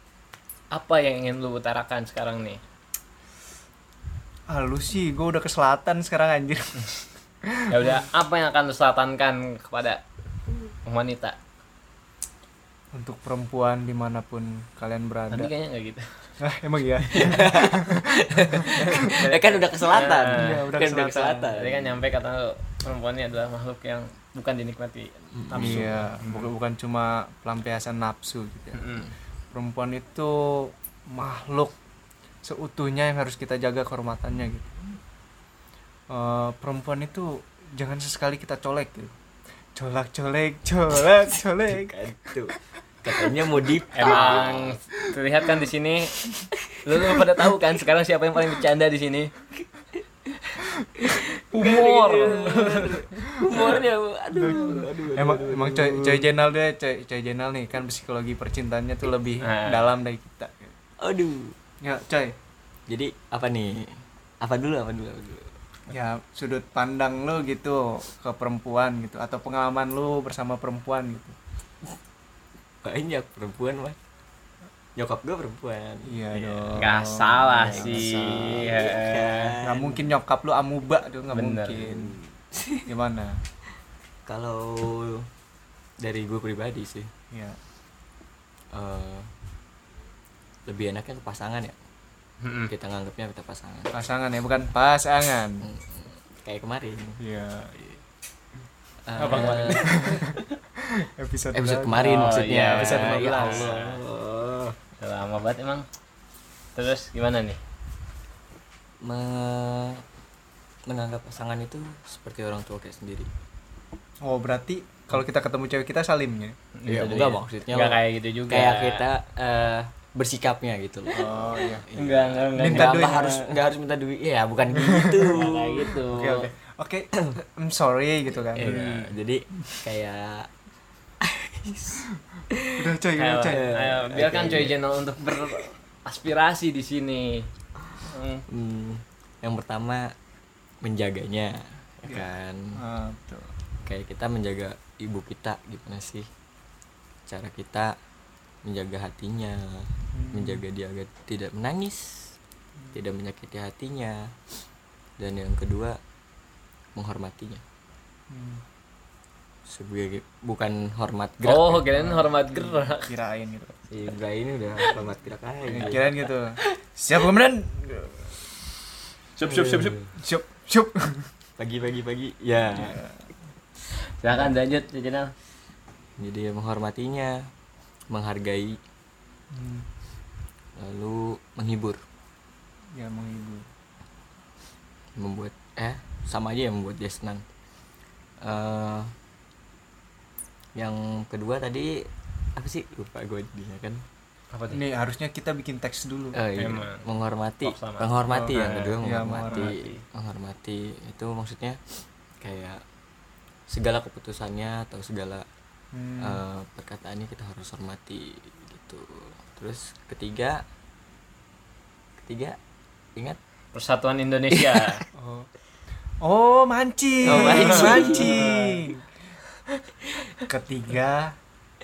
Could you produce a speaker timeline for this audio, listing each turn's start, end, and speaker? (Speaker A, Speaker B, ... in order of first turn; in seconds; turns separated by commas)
Speaker A: 0.7-2.6, Speaker B: 4.5-8.1, Speaker A: 7.7-10.0, Speaker A: 10.8-11.4, Speaker B: 12.9-15.5, Speaker A: 15.3-16.3, Speaker B: 16.4-19.6, Speaker A: 17.1-17.4, Speaker C: 17.1-22.0, Speaker A: 19.9-20.6, Speaker B: 20.3-21.5, Speaker A: 21.6-26.5, Speaker C: 25.3-26.1, Speaker B: 25.6-29.0, Speaker A: 28.8-29.1, Speaker B: 29.5-31.7, Speaker B: 32.4-34.8, Speaker B: 36.1-39.1, Speaker B: 39.8-42.5, Speaker C: 41.2-44.8, Speaker A: 43.9-46.2, Speaker C: 46.5-47.6, Speaker A: 46.9-49.3, Speaker C: 49.6-56.3, Speaker A: 51.5-53.9, Speaker B: 52.1-52.5, Speaker B: 54.3-60.7, Speaker A: 59.4-59.9, Speaker C: 61.0-61.6, Speaker B: 61.8-62.4, Speaker C: 62.9-65.5, Speaker B: 65.9-71.3, Speaker C: 72.8-74.0, Speaker C: 75.0-76.9, Speaker B: 76.1-78.7, Speaker A: 76.8-79.6, Speaker C: 77.6-80.1, Speaker B: 79.6-82.2, Speaker A: 81.3-81.9, Speaker C: 81.9-82.9, Speaker B: 82.9-83.4, Speaker C: 84.3-85.3, Speaker C: 86.0-87.1, Speaker B: 87.3-87.6, Speaker C: 88.7-89.3, Speaker C: 90.7-91.8, Speaker A: 92.4-92.7, Speaker C: 92.7-93.9, Speaker B: 93.9-95.7, Speaker C: 95.6-97.2, Speaker B: 97.2-97.8, Speaker C: 99.1-100.2, Speaker A: 99.2-100.4, Speaker B: 99.2-103.7, Speaker C: 101.5-104.8, Speaker A: 101.9-104.0, Speaker A: 105.0-105.9, Speaker A: 106.8-107.6, Speaker C: 109.0-110.0, Speaker C: 110.9-113.3, Speaker B: 114.2-116.6, Speaker A: 116.8-119.1, Speaker C: 116.9-126.0, Speaker B: 121.1-121.9, Speaker A: 122.0-123.4, Speaker B: 122.6-123.4, Speaker B: 124.8-125.5, Speaker A: 125.3-126.5, Speaker B: 126.1-128.8, Speaker C: 128.4-130.5, Speaker A: 128.6-129.1, Speaker C: 131.2-132.7, Speaker B: 132.7-133.7, Speaker A: 133.2-137.5, Speaker C: 133.5-135.6, Speaker A: 138.1-138.4, Speaker C: 138.5-140.1, Speaker C: 140.8-142.8, Speaker B: 142.1-143.5, Speaker C: 143.8-146.3, Speaker C: 147.3-147.9, Speaker C: 148.7-152.3, Speaker B: 150.1-150.6, Speaker C: 152.9-154.3, Speaker C: 155.2-156.0, Speaker C: 157.0-157.6, Speaker B: 158.3-158.6, Speaker C: 159.7-162.0, Speaker A: 161.4-163.1, Speaker B: 162.1-163.7, Speaker C: 163.9-166.2, Speaker B: 165.7-168.5, Speaker A: 169.4-170.0, Speaker C: 169.4-170.1, Speaker B: 170.2-171.3, Speaker C: 171.6-173.0, Speaker B: 172.8-173.2, Speaker A: 174.2-175.3, Speaker C: 176.2-177.5, Speaker C: 178.1-178.8, Speaker B: 179.5-179.9, Speaker C: 180.8-182.0, Speaker B: 183.0-183.7, Speaker C: 185.2-187.4, Speaker C: 188.4-189.1, Speaker C: 190.8-194.0, Speaker A: 194.5-194.8, Speaker B: 194.7-196.4, Speaker C: 196.3-202.8, Speaker A: 196.6-197.1, Speaker A: 197.6-200.0, Speaker B: 198.3-199.8, Speaker C: 203.7-205.5, Speaker B: 205.9-206.4, Speaker C: 206.2-210.6, Speaker C: 212.2-212.6, Speaker A: 213.7-215.0, Speaker C: 214.5-215.0, Speaker B: 215.2-215.5, Speaker B: 216.2-219.0, Speaker C: 217.3-219.0, Speaker A: 217.3-218.5, Speaker B: 220.4-221.3